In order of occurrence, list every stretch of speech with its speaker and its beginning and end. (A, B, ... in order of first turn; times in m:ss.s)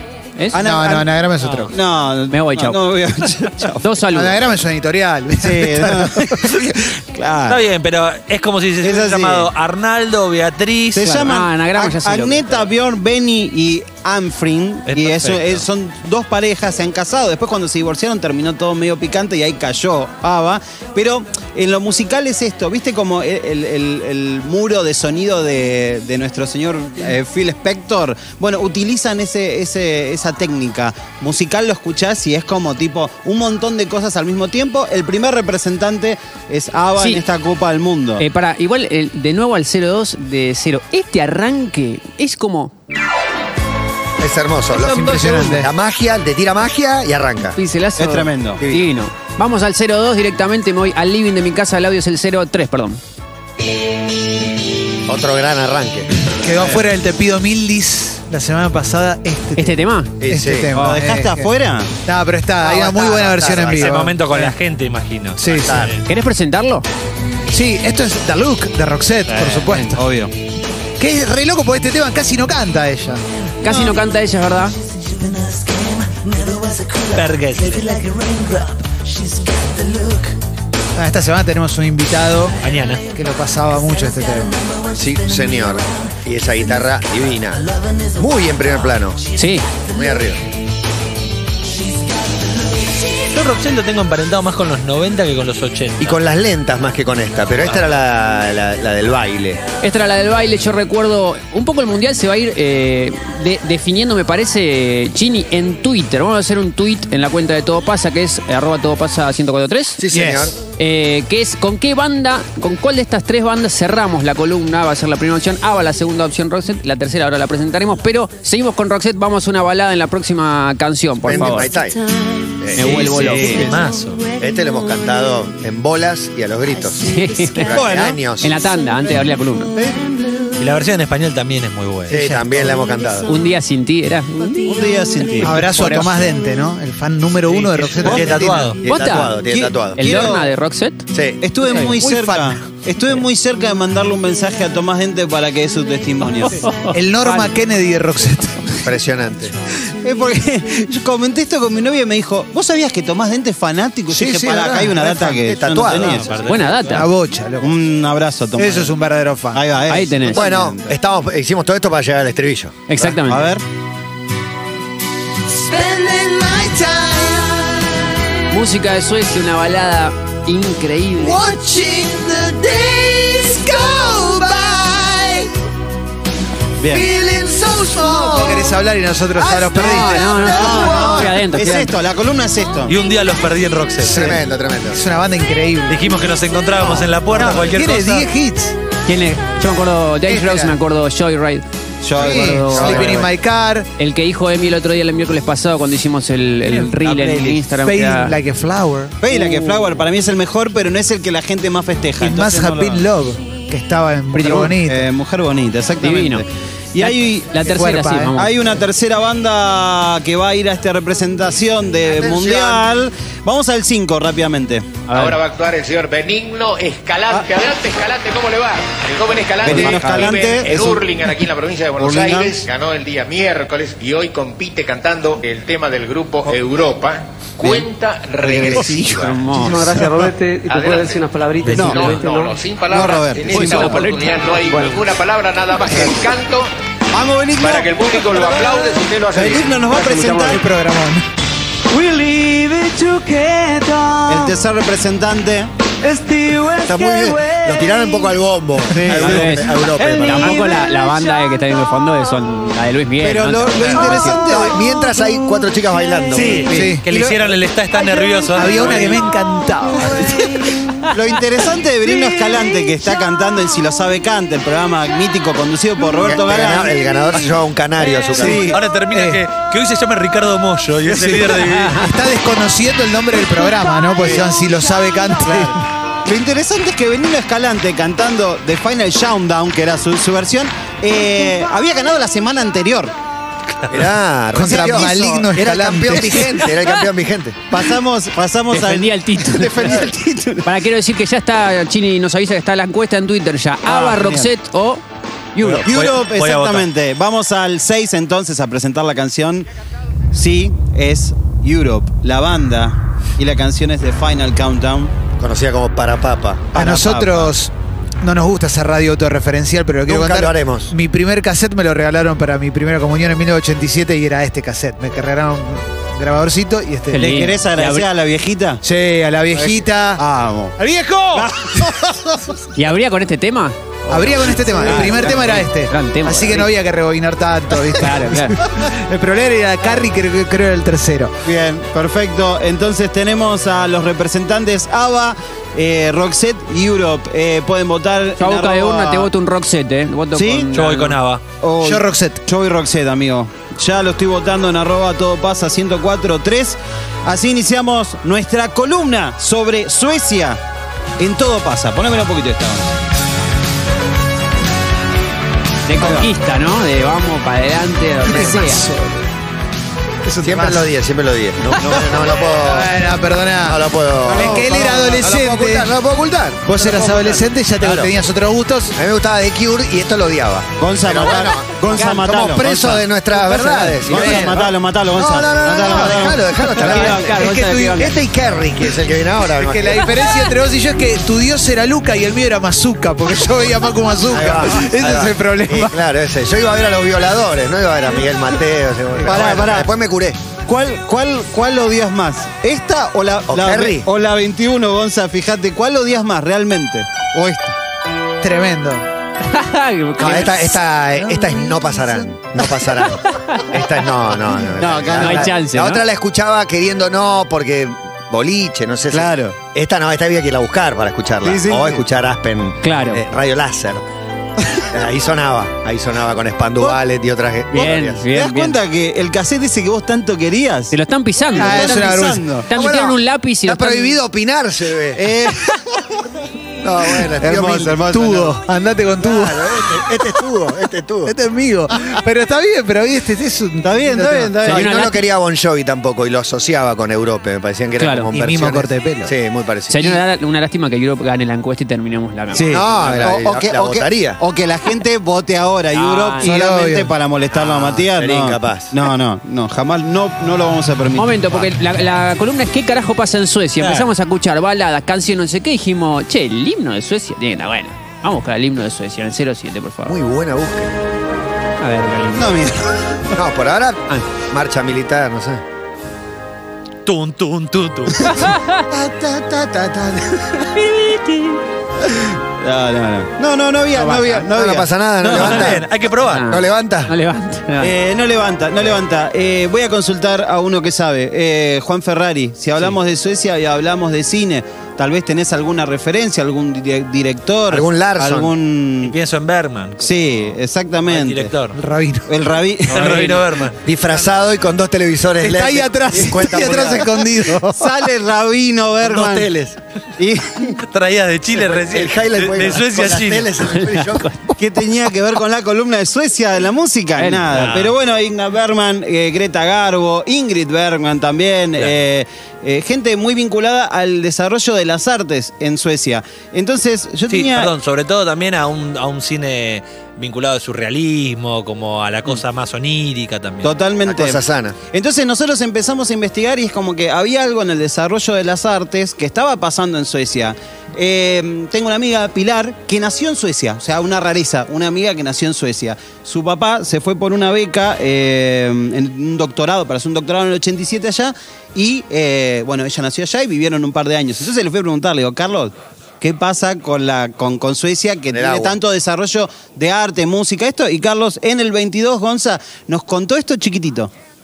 0:00.5-0:01.2 A
0:00.5-0:01.7 B
0:01.4-0:01.7 C
0:01.7-0:04.0 A
0:02.3-0:02.8 D
0:03.8-0:04.4 D
0:04.1-0:06.5 B
0:05.3-0:07.6 A
0:07.5-0:11.2 C
0:08.8-0:09.5 A
0:10.9-0:38.2 A
0:11.0-0:12.6 D
0:14.9-0:15.6 C
0:38.2-0:42.7 D
0:44.2-0:47.6 E
0:44.7-0:45.7 B
0:47.6-0:53.0 D
0:48.0-0:48.6 A
0:48.6-0:48.9 E
0:55.1-0:56.2 E
0:56.3-1:01.5 B
0:59.6-1:00.1 D
1:00.2-1:00.7 E
1:00.7-1:01.9 A
1:02.0-1:04.5 B
1:02.6-1:04.1 E
1:03.7-1:06.0 C
1:05.4-1:05.7 B
1:05.6-1:06.0 E
1:06.1-1:06.8 D
1:07.5-1:10.0 B
1:09.4-1:10.3 A
1:11.0-1:13.2 B
1:13.6-1:14.8 D
1:13.6-1:14.0 A
1:17.1-1:18.0 C
1:21.0-1:22.5 B
1:22.6-1:23.1 C
1:23.1-1:24.6 B
1:24.9-1:29.2 E
1:29.3-1:29.6 D
1:29.9-1:30.4 E
1:33.3-1:36.2 C
1:36.0-1:39.6 E
1:39.8-1:50.0 D
1:50.0-1:50.6 E
1:50.1-1:50.5 B
1:50.7-2:01.7 D
2:01.2-2:02.0 E
2:02.6-2:03.1 E
2:02.7-2:03.6 D
2:02.8-2:04.3 C
2:02.8-2:03.6 A
2:04.4-2:08.6 E
2:07.0-2:07.8 D
2:07.7-2:08.2 A
2:08.4-2:09.7 D
2:09.7-2:10.0 A
2:10.6-2:12.4 C
2:12.1-2:13.3 E
2:13.3-2:14.6 D
2:14.5-2:16.2 A
2:15.4-2:18.6 B
2:17.5-2:18.8 C
2:18.0-2:20.3 E
2:18.8-2:19.4 D
2:19.4-2:20.5 A
2:20.0-2:21.1 D
2:21.1-2:21.4 E
2:21.4-2:26.6 A
2:21.7-2:21.9 D
2:21.8-2:22.7 B
2:26.5-2:27.0 D
2:26.9-2:28.8 B
2:28.8-2:29.5 E
2:30.0-2:36.3 A
2:34.1-2:35.1 B
2:35.0-2:36.3 E
2:36.0-2:37.0 C
2:36.4-2:37.1 D
2:36.8-2:37.7 B
2:37.6-2:38.9 A
2:38.6-2:39.6 B
2:39.5-2:40.8 A
2:39.9-2:40.5 D
2:40.3-2:42.9 E
2:42.9-2:43.5 D
2:43.0-2:43.6 A
2:45.6-2:47.8 B
2:48.5-2:51.4 D
2:51.2-2:55.4 B
2:51.5-2:55.4 E
2:56.8-2:57.1 A
2:56.9-2:58.7 E
2:58.1-3:01.5 B
2:59.7-3:01.9 D
3:00.5-3:02.9 A
3:02.9-3:04.3 C
3:04.0-3:05.0 E
3:04.0-3:04.4 B
3:04.9-3:06.0 B
3:05.9-3:08.3 C
3:06.8-3:08.8 B
3:09.0-3:11.6 D
3:10.2-3:10.8 B
3:12.0-3:13.3 A
3:12.2-3:13.9 B
3:12.2-3:13.2 D
3:12.8-3:13.1 E
3:14.0-3:18.3 D
3:16.7-3:17.3 C
3:17.7-3:19.2 B
3:19.2-3:23.0 A
3:22.2-3:25.1 B
3:24.3-3:24.7 D
3:24.4-3:27.6 A
3:26.0-3:26.4 D
3:27.0-3:28.5 D
3:27.6-3:28.4 B
3:28.3-3:35.0 A
3:32.0-3:32.8 E
3:35.1-3:35.4 D
3:35.1-3:50.0 F
3:39.6-3:41.0 A
3:39.6-3:40.2 D
3:42.0-3:42.6 A
3:48.4-3:49.1 A
3:48.9-3:49.9 D
3:49.5-3:52.6 G
3:50.7-3:56.7 F
3:51.6-3:52.2 C
3:51.7-3:52.1 A
3:52.9-3:54.0 A
3:53.5-3:54.8 D
3:54.7-3:55.0 G
3:57.1-3:58.7 A
3:57.6-3:59.8 F
3:58.4-4:00.6 G
3:59.3-4:00.6 A
4:00.5-4:01.3 B
4:01.9-4:04.5 G
4:04.3-4:05.7 A
4:06.0-4:08.3 G
4:06.8-4:10.6 E
4:08.9-4:09.6 A
4:09.1-4:14.4 D
4:09.8-4:11.4 G
4:13.2-4:14.9 A
4:14.4-4:16.7 E
4:16.3-4:19.2 C
4:16.6-4:17.2 B
4:16.7-4:17.0 A
4:18.5-4:20.7 B
4:21.1-4:26.9 A
4:26.2-4:28.6 E
4:28.4-4:29.4 B
4:28.4-4:28.8 A
4:28.7-4:32.0 C
4:31.1-4:35.8 B
4:31.7-4:32.1 D
4:34.2-4:34.5 A
4:35.4-4:43.1 A
4:43.9-4:47.6 E
4:44.5-4:46.7 B
4:44.8-4:45.3 A
4:47.7-4:50.7 A
4:48.7-4:50.0 D
4:50.6-4:55.0 D
4:53.8-4:54.5 A
4:55.5-4:55.9 D
4:55.6-4:56.9 C
4:55.8-4:59.7 A
5:00.3-5:05.1 A
5:05.4-5:06.8 E
5:06.7-5:07.5 A
5:06.7-5:07.7 B
5:08.2-5:17.3 B
5:10.1-5:10.9 E
5:17.1-5:18.1 D
5:17.2-5:18.8 A
5:18.8-5:20.2 B
5:19.5-5:20.8 A
5:20.8-5:22.2 B
5:21.3-5:22.1 A
5:22.7-5:26.7 D
5:24.1-5:31.4 B
5:24.5-5:25.6 A
5:27.9-5:28.6 D
5:31.4-5:39.3 A
5:38.4-5:41.2 D
5:40.3-5:40.8 A
5:40.7-5:41.4 C
5:41.6-5:50.6 A
5:41.8-5:42.4 B
5:51.2-5:53.0 A
5:55.8-5:58.8 D
5:55.9-5:56.3 A
5:58.2-5:59.3 B
6:00.3-6:00.8 B
6:00.4-6:02.9 E
6:02.5-6:05.9 B
6:03.6-6:07.2 E
6:04.3-6:05.1 A
6:06.6-6:08.9 B
6:06.9-6:07.4 A
6:07.8-6:08.1 E
6:08.9-6:14.6 E
6:10.8-6:17.0 A
6:14.2-6:14.6 B
6:15.1-6:20.3 E
6:16.7-6:18.1 D
6:16.8-6:18.0 B
6:19.6-6:26.0 B
6:24.3-6:30.4 E
6:29.2-6:29.9 A
6:30.6-6:37.8 A
6:33.5-6:34.1 E
6:38.4-6:39.0 B
6:39.5-6:40.7 D
6:40.2-6:54.0 E
6:43.3-6:43.7 D
6:44.8-6:46.0 D
6:49.1-6:49.6 A
6:51.4-6:52.0 A
6:52.8-6:53.2 D
6:54.9-6:58.2 E
6:57.7-6:58.8 D
6:58.2-7:00.9 A
7:00.9-7:02.1 D
7:01.6-7:02.4 B
7:01.6-7:02.7 A
7:02.7-7:04.2 D
7:02.7-7:05.2 E
7:05.1-7:06.0 A
7:06.8-7:08.0 E
7:07.4-7:08.6 A
7:08.1-7:09.9 B
7:09.2-7:11.3 E
7:11.2-7:14.6 B
7:13.8-7:14.9 A
7:14.6-7:15.2 D
7:14.7-7:20.2 E
7:18.0-7:18.3 D
7:18.3-7:19.3 B
7:19.9-7:22.8 D
7:22.5-7:31.7 A
7:22.7-7:24.4 E
7:25.9-7:26.5 D
7:26.4-7:27.1 B
7:27.6-7:29.0 E
7:31.2-7:40.2 D
7:33.8-7:34.1 C
7:40.0-7:40.9 E
7:41.8-7:42.5 D
7:42.3-7:43.2 A
7:43.3-7:45.6 E
7:47.0-7:48.6 C
7:48.3-7:48.8 D
7:48.9-7:50.8 A
7:52.0-7:55.7 A
7:53.9-7:54.4 D
7:54.4-7:55.9 E
7:55.3-7:56.5 C
7:55.4-7:55.7 D
7:56.2-7:57.9 D
7:56.4-7:57.1 E
7:57.8-8:09.1 A
8:07.7-8:08.5 E
8:09.0-8:10.1 C
8:10.0-8:11.5 A
8:11.1-8:11.8 C
8:11.7-8:12.3 B
8:12.3-8:13.5 A
8:12.9-8:13.8 C
8:13.8-8:17.3 E
8:15.4-8:17.9 B
8:16.7-8:19.5 A
8:19.1-8:19.8 E
8:20.2-8:20.8 A
8:20.8-8:23.5 C
8:21.5-8:24.3 E
8:23.6-8:24.5 D
8:24.6-8:37.7 A
8:27.2-8:27.4 D
8:27.5-8:27.9 C
8:37.3-8:43.8 C
8:43.6-9:14.1 A
8:44.0-8:44.8 E
9:08.3-9:08.8 E